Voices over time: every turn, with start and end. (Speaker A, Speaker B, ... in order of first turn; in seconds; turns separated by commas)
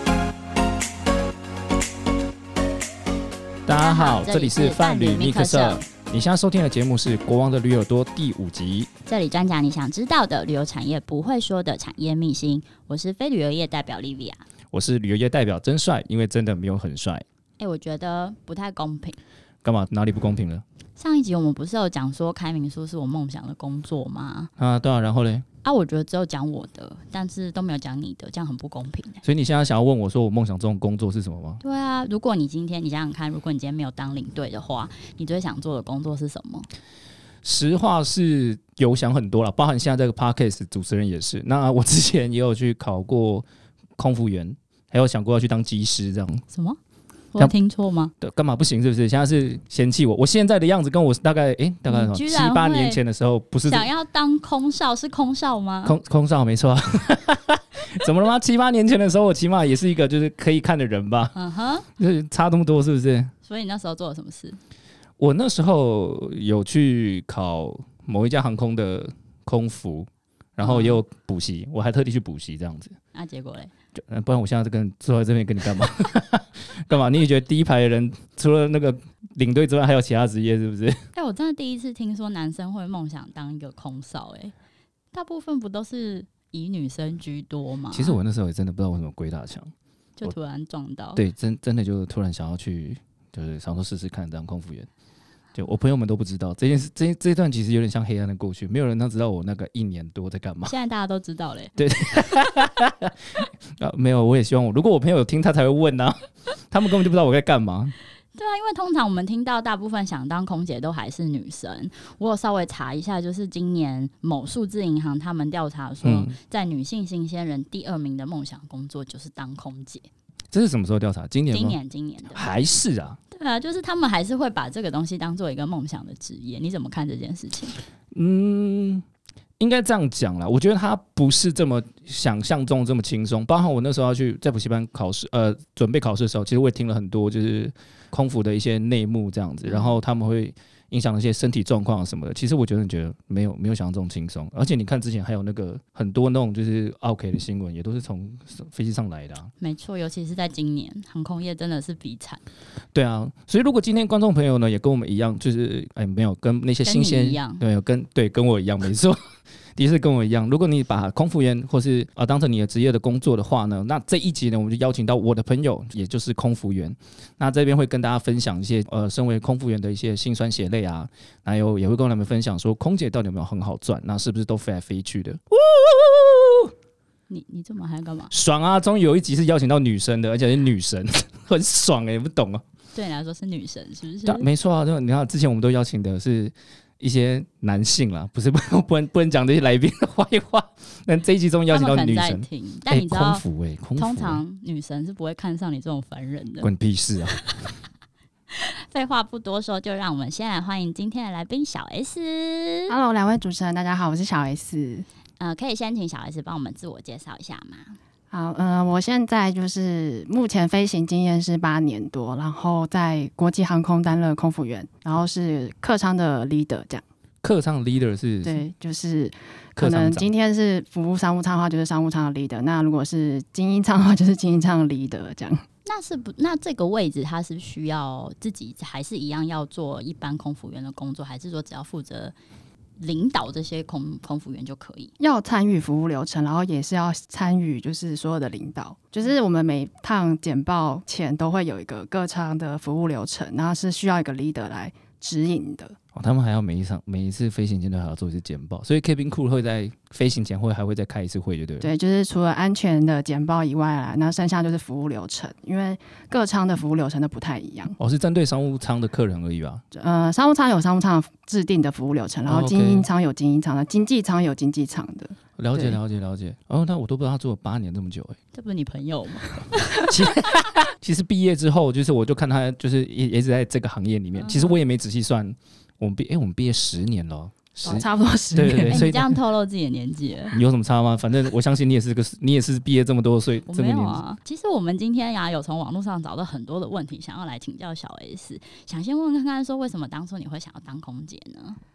Speaker A: 3.7-8.9, Speaker B: 3.8-5.8, Speaker B: 9.1-14.4, Speaker A: 14.7-17.2, Speaker B: 17.6-19.2, Speaker A: 19.6-20.6, Speaker B: 21.0-24.5, Speaker A: 24.6-25.4, Speaker B: 25.6-29.2, Speaker A: 29.2-31.6, Speaker B: 31.6-36.7, Speaker A: 37.4-43.5, Speaker A: 44.0-46.4, Speaker B: 46.5-46.8, Speaker B: 47.3-48.1, Speaker A: 48.2-53.9, Speaker B: 51.9-53.0, Speaker B: 53.6-56.0, Speaker A: 55.9-61.3, Speaker B: 61.4-61.9, Speaker A: 62.0-63.3, Speaker B: 63.5-64.6, Speaker A: 65.2-73.0, Speaker B: 70.6-71.0, Speaker B: 73.1-73.7, Speaker A: 74.0-81.0, Speaker B: 81.2-84.5, Speaker B: 85.1-88.2, Speaker A: 87.9-89.7, Speaker B: 90.2-91.2, Speaker A: 91.2-94.9, Speaker A: 95.5-100.8, Speaker B: 100.7-101.7, Speaker A: 101.8-107.9, Speaker B: 108.3-120.1, Speaker A: 116.0-116.3, Speaker A: 120.5-121.8, Speaker B: 121.5-122.5, Speaker A: 122.3-123.2, Speaker B: 123.3-127.8, Speaker A: 128.1-129.1, Speaker A: 129.6-149.5, Speaker B: 139.7-139.9, Speaker B: 149.6-152.4, Speaker A: 152.9-159.2, Speaker B: 156.8-157.6, Speaker A: 159.8-176.7, Speaker B: 177.3-178.3, Speaker A: 178.3-182.6, Speaker B: 182.9-184.5, Speaker A: 184.2-194.4, Speaker B: 191.7-193.4, Speaker B: 194.0-196.7, Speaker A: 196.6-197.4, Speaker B: 197.2-197.7, Speaker B: 198.5-202.9, Speaker C: 202.9-205.1, Speaker B: 205.4-208.0, Speaker C: 208.3-217.0, Speaker A: 217.4-218.6, Speaker C: 218.4-225.7, Speaker A: 219.8-220.3, Speaker B: 225.8-232.3, Speaker B: 233.0-235.1, Speaker C: 235.2-245.9, Speaker A: 246.1-251.9, Speaker C: 251.8-257.9, Speaker A: 258.0-259.8, Speaker C: 259.9-266.0, Speaker A: 262.5-263.1, Speaker A: 265.6-268.4, Speaker B: 268.5-270.3, Speaker A: 270.1-279.2, Speaker B: 274.4-274.8, Speaker C: 277.8-279.1, Speaker B: 278.9-280.6, Speaker A: 280.5-284.2, Speaker B: 283.7-291.8